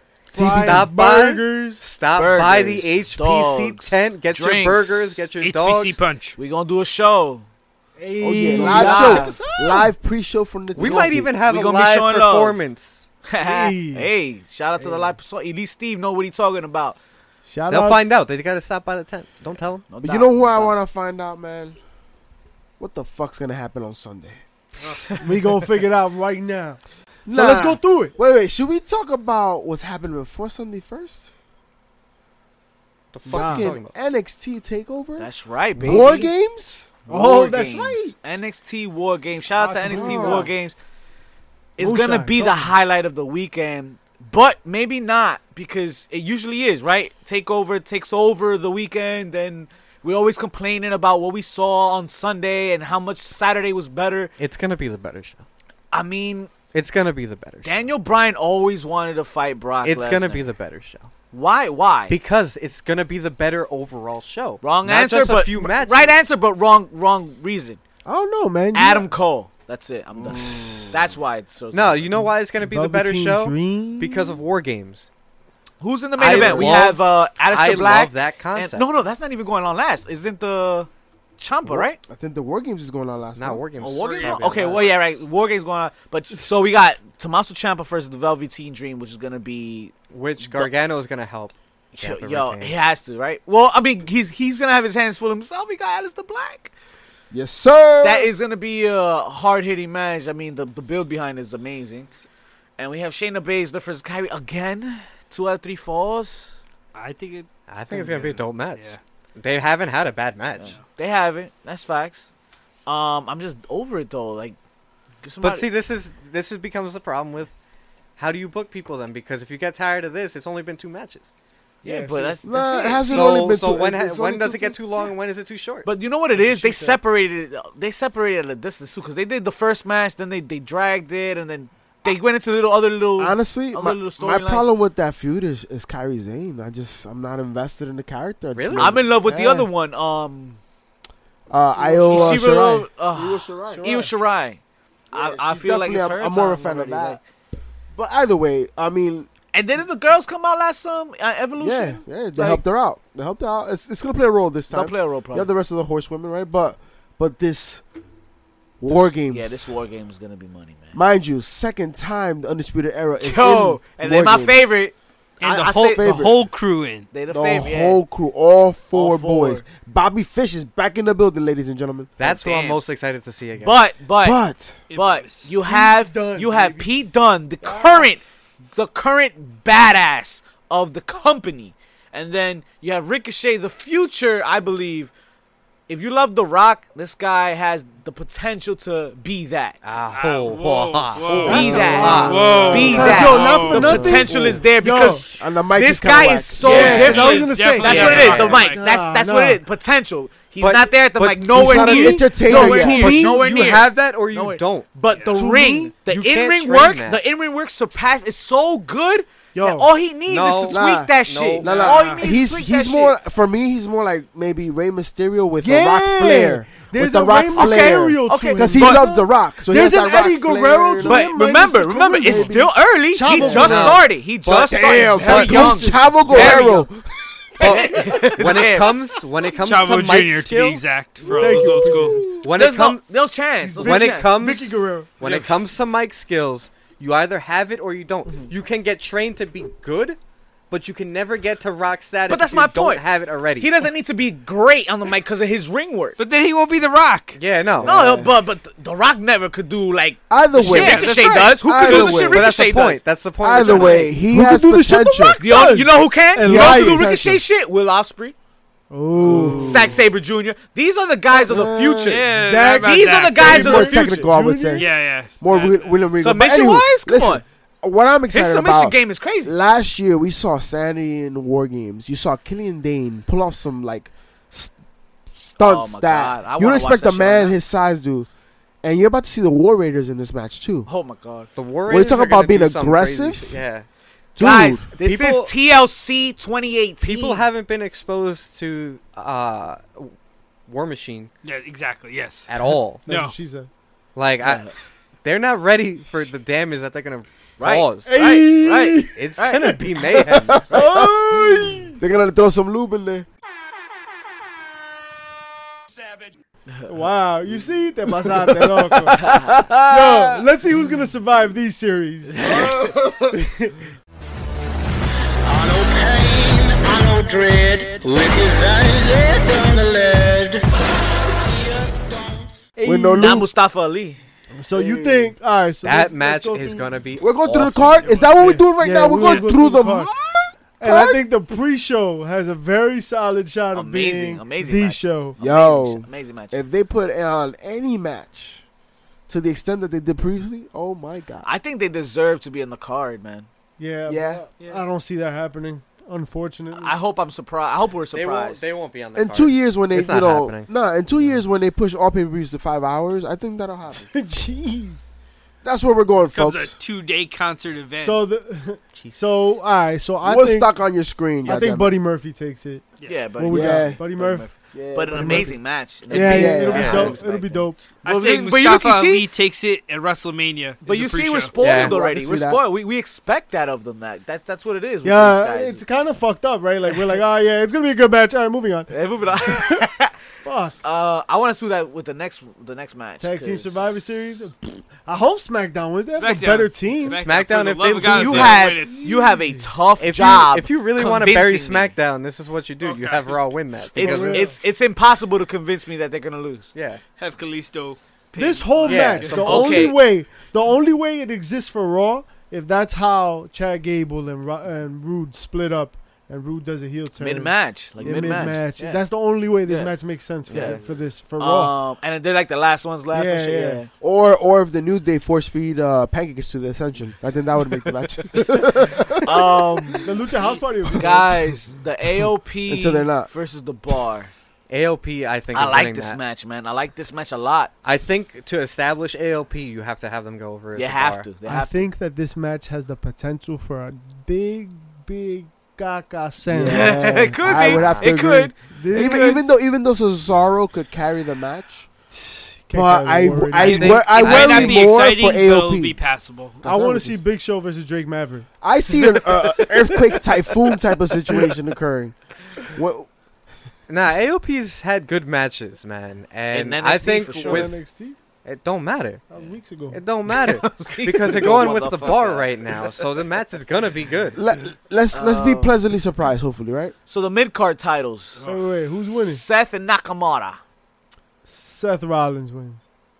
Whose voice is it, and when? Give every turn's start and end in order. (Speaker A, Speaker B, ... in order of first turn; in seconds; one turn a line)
Speaker A: 0.3-1.8
Speaker B: 0.3-0.9
Speaker C: 0.3-6.0
Speaker D: 2.1-5.3
Speaker E: 5.4-6.4
Speaker D: 6.4-7.5
Speaker A: 8.0-9.9
Speaker B: 8.2-11.3
Speaker D: 8.5-9.4
Speaker C: 10.7-13.1
Speaker D: 10.8-12.7
Speaker D: 13.3-17.0
Speaker A: 13.4-14.1
Speaker A: 14.8-15.1
Speaker A: 17.4-18.1
Speaker C: 17.7-19.9
Speaker D: 19.9-20.8
Speaker B: 20.0-21.8
Speaker B: 22.8-24.4
Speaker E: 24.8-25.2
Speaker A: 25.2-26.8
Speaker B: 27.2-31.3
Speaker A: 27.3-28.1
Speaker C: 33.1-33.9
Speaker B: 33.2-36.9
Speaker A: 33.3-33.7
Speaker D: 35.2-36.3
Speaker D: 37.1-40.7
Speaker A: 37.1-38.1
Speaker A: 39.5-40.5
Speaker B: 39.9-40.5
Speaker D: 41.8-54.3
Speaker A: 41.8-42.7
Speaker C: 54.4-55.4
Speaker D: 55.9-56.5
Speaker C: 56.7-57.8
Speaker D: 57.6-60.5
Speaker C: 59.8-61.1
Speaker D: 61.3-62.2
Speaker C: 62.1-66.2
Speaker D: 64.6-67.8
Speaker A: 68.0-69.1
Speaker D: 68.7-72.2
Speaker B: 70.2-70.9
Speaker C: 70.5-70.9
Speaker C: 71.7-75.1
Speaker A: 72.6-74.4
Speaker D: 75.8-82.0
Speaker C: 76.2-78.8
Speaker B: 82.0-83.6
Speaker C: 83.4-85.1
Speaker D: 83.8-90.7
Speaker E: 84.0-84.8
Speaker C: 90.1-92.7
Speaker D: 91.9-96.7
Speaker B: 97.3-98.3
Speaker D: 98.0-102.1
Speaker D: 102.8-106.5
Speaker E: 106.9-109.0
Speaker C: 107.7-110.8
Speaker D: 110.6-112.3
Speaker D: 112.8-114.6
Speaker D: 115.2-115.7
Speaker C: 115.4-117.5
Speaker C: 118.2-121.3
Speaker A: 121.8-122.4
Speaker D: 121.8-123.4
Speaker B: 122.4-124.8
Speaker C: 123.0-125.9
Speaker D: 125.8-134.7
Speaker A: 126.3-127.0
Speaker B: 133.2-139.7
Speaker C: 138.5-139.0
Speaker D: 138.7-140.6
Speaker B: 141.5-143.9
Speaker A: 141.7-142.4
Speaker D: 142.0-144.6
Speaker A: 143.7-144.1
Speaker B: 145.1-147.2
Speaker D: 145.1-147.2
Speaker B: 147.9-149.3
Speaker D: 149.5-152.5
Speaker B: 151.6-157.8
Speaker D: 154.7-155.5
Speaker B: 158.8-159.8
Speaker D: 159.3-161.0
Speaker B: 160.9-164.8
Speaker D: 163.2-166.3
Speaker E: 165.4-167.1
Speaker B: 165.8-166.4
Speaker D: 167.1-168.0
Speaker B: 167.3-172.1
Speaker D: 168.9-169.6
Speaker C: 172.2-173.8
Speaker D: 172.2-172.8
Speaker D: 173.6-174.4
Speaker B: 174.2-174.8
Speaker E: 174.9-175.5
Speaker D: 174.9-185.1
Speaker A: 175.6-176.9
Speaker A: 177.6-178.2
Speaker D: 185.9-189.9
Speaker C: 189.8-193.3
Speaker E: 190.1-194.1
Speaker D: 191.3-213.2
Speaker A: 191.4-195.2
Speaker B: 192.7-194.7
Speaker B: 195.3-197.1
Speaker A: 196.6-199.6
Speaker C: 196.7-198.7
Speaker E: 196.7-198.8
Speaker C: 200.6-204.9
Speaker B: 201.5-203.2
Speaker A: 201.7-203.5
Speaker E: 205.1-205.4
Speaker A: 205.3-205.9
Speaker C: 206.1-207.2
Speaker A: 209.5-209.9
Speaker C: 210.3-211.7
Speaker B: 210.7-221.3
Speaker E: 211.6-212.2
Speaker A: 215.6-224.0
Speaker D: 217.5-219.1
Speaker D: 221.0-226.8
Speaker B: 222.2-222.7
Speaker B: 223.3-223.8
Speaker C: 223.4-226.6
Speaker B: 224.7-227.0
Speaker A: 225.2-226.6
Speaker D: 227.6-229.2
Speaker C: 227.6-231.0
Speaker E: 229.6-232.3
Speaker A: 231.3-232.3
Speaker B: 231.3-232.4
Speaker D: 232.3-234.3
Speaker C: 232.4-233.0
Speaker A: 233.6-235.1
Speaker C: 233.8-240.2
Speaker E: 235.2-235.5
Speaker C: 240.7-243.7
Speaker D: 242.3-243.1
Speaker D: 243.6-246.2
Speaker E: 246.2-247.4
Speaker C: 247.4-247.9
Speaker B: 247.8-248.3
Speaker D: 247.8-253.0
Speaker B: 250.3-252.5
Speaker E: 250.6-251.7
Speaker C: 251.8-254.1
Speaker B: 253.4-255.6
Speaker D: 253.5-254.1
Speaker A: 254.2-257.1
Speaker D: 255.4-258.3
Speaker B: 256.4-257.4
Speaker A: 258.9-259.9
Speaker B: 259.2-260.0
Speaker D: 259.3-264.2
Speaker B: 261.3-262.2
Speaker E: 262.1-264.0
Speaker A: 262.4-264.9
Speaker B: 263.4-274.7
Speaker E: 264.7-266.0
Speaker D: 266.2-267.4
Speaker D: 268.3-269.5
Speaker B: 275.3-278.3
Speaker D: 275.6-277.5
Speaker B: 278.8-280.9
Speaker D: 280.9-281.5
Speaker C: 281.6-283.9
Speaker B: 281.9-283.6
Speaker B: 284.4-284.9
Speaker D: 284.4-287.5
Speaker C: 285.0-285.5
Speaker C: 287.0-290.1
Speaker C: 290.7-291.3
Speaker E: 291.4-292.5
Speaker C: 292.5-293.1
Speaker E: 293.1-293.3
Speaker A: 293.1-293.7
Speaker C: 294.1-294.7
Speaker D: 294.4-294.7
Speaker C: 295.2-298.2
Speaker D: 297.6-299.8
Speaker A: 298.1-299.2
Speaker C: 299.1-300.7
Speaker B: 300.1-303.3
Speaker A: 300.7-302.0
Speaker A: 306.9-309.2
Speaker B: 308.2-310.5
Speaker D: 309.2-309.5
Speaker A: 309.9-312.4
Speaker D: 312.3-312.9
Speaker B: 312.4-313.4
Speaker A: 313.3-313.8
Speaker F: 315.4-322.6
Speaker A: 322.8-323.4
Speaker B: 322.8-323.5
Speaker D: 323.2-324.2
Speaker A: 324.6-326.9
Speaker B: 324.7-325.3
Speaker C: 325.8-328.6
Speaker B: 327.2-331.2
Speaker A: 328.7-330.1
Speaker A: 330.8-335.4
Speaker D: 333.7-336.6
Speaker B: 335.4-338.6
Speaker B: 339.3-341.5
Speaker D: 341.4-343.5
Speaker A: 343.8-346.9
Speaker B: 344.1-344.4
Speaker D: 346.8-348.6
Speaker C: 348.1-351.4
Speaker B: 349.1-354.1
Speaker A: 354.0-355.1
Speaker B: 355.6-356.8
Speaker E: 356.3-358.2
Speaker A: 358.0-360.7
Speaker B: 360.2-361.9
Speaker A: 361.4-364.5
Speaker D: 363.1-369.3
Speaker B: 363.5-364.0
Speaker B: 364.7-365.5
Speaker A: 365.1-365.5
Speaker A: 366.1-367.8
Speaker B: 366.1-367.2
Speaker C: 366.7-367.1
Speaker E: 368.0-371.5
Speaker D: 370.8-375.8
Speaker C: 371.6-371.9
Speaker B: 371.7-372.6
Speaker A: 375.0-378.9
Speaker D: 378.9-380.1
Speaker A: 379.4-379.9
Speaker A: 380.4-380.8
Speaker D: 380.8-383.9
Speaker A: 383.2-387.2
Speaker E: 386.2-389.1
Speaker C: 387.1-388.7
Speaker D: 388.0-391.9
Speaker A: 388.8-389.7
Speaker C: 390.0-394.5
Speaker E: 392.8-393.5
Speaker A: 393.9-394.6
Speaker D: 393.9-396.7
Speaker C: 396.7-397.0
Speaker E: 397.2-399.9
Speaker A: 398.4-411.8
Speaker C: 398.9-399.8
Speaker D: 399.2-400.0
Speaker D: 407.2-409.0
Speaker B: 408.0-408.6
Speaker D: 409.6-409.9
Speaker C: 410.5-410.9
Speaker D: 410.5-410.8
Speaker D: 411.4-413.9
Speaker A: 413.1-413.8
Speaker B: 414.0-420.1
Speaker D: 419.2-420.1
Speaker A: 420.0-421.6
Speaker D: 421.0-424.3
Speaker B: 422.7-423.3
Speaker C: 424.7-426.2
Speaker D: 425.5-427.7
Speaker C: 427.8-431.2
Speaker D: 430.7-431.9
Speaker A: 431.4-437.0
Speaker B: 436.5-441.9
Speaker D: 436.6-439.4
Speaker C: 437.4-438.2
Speaker A: 438.7-439.4
Speaker A: 442.1-443.9
Speaker B: 442.7-446.0
Speaker C: 443.6-445.0
Speaker E: 443.6-446.6
Speaker B: 446.6-447.2
Speaker A: 446.6-448.5
Speaker B: 448.6-452.1
Speaker B: 452.7-453.1
Speaker C: 453.9-457.8
Speaker D: 456.5-457.7
Speaker A: 457.3-458.2
Speaker C: 458.4-459.2
Speaker A: 459.3-460.0
Speaker C: 459.9-464.4
Speaker D: 460.3-463.0
Speaker B: 464.3-466.9
Speaker D: 465.1-465.7
Speaker D: 467.1-468.4
Speaker A: 468.4-469.4
Speaker D: 469.1-470.6
Speaker A: 471.4-472.8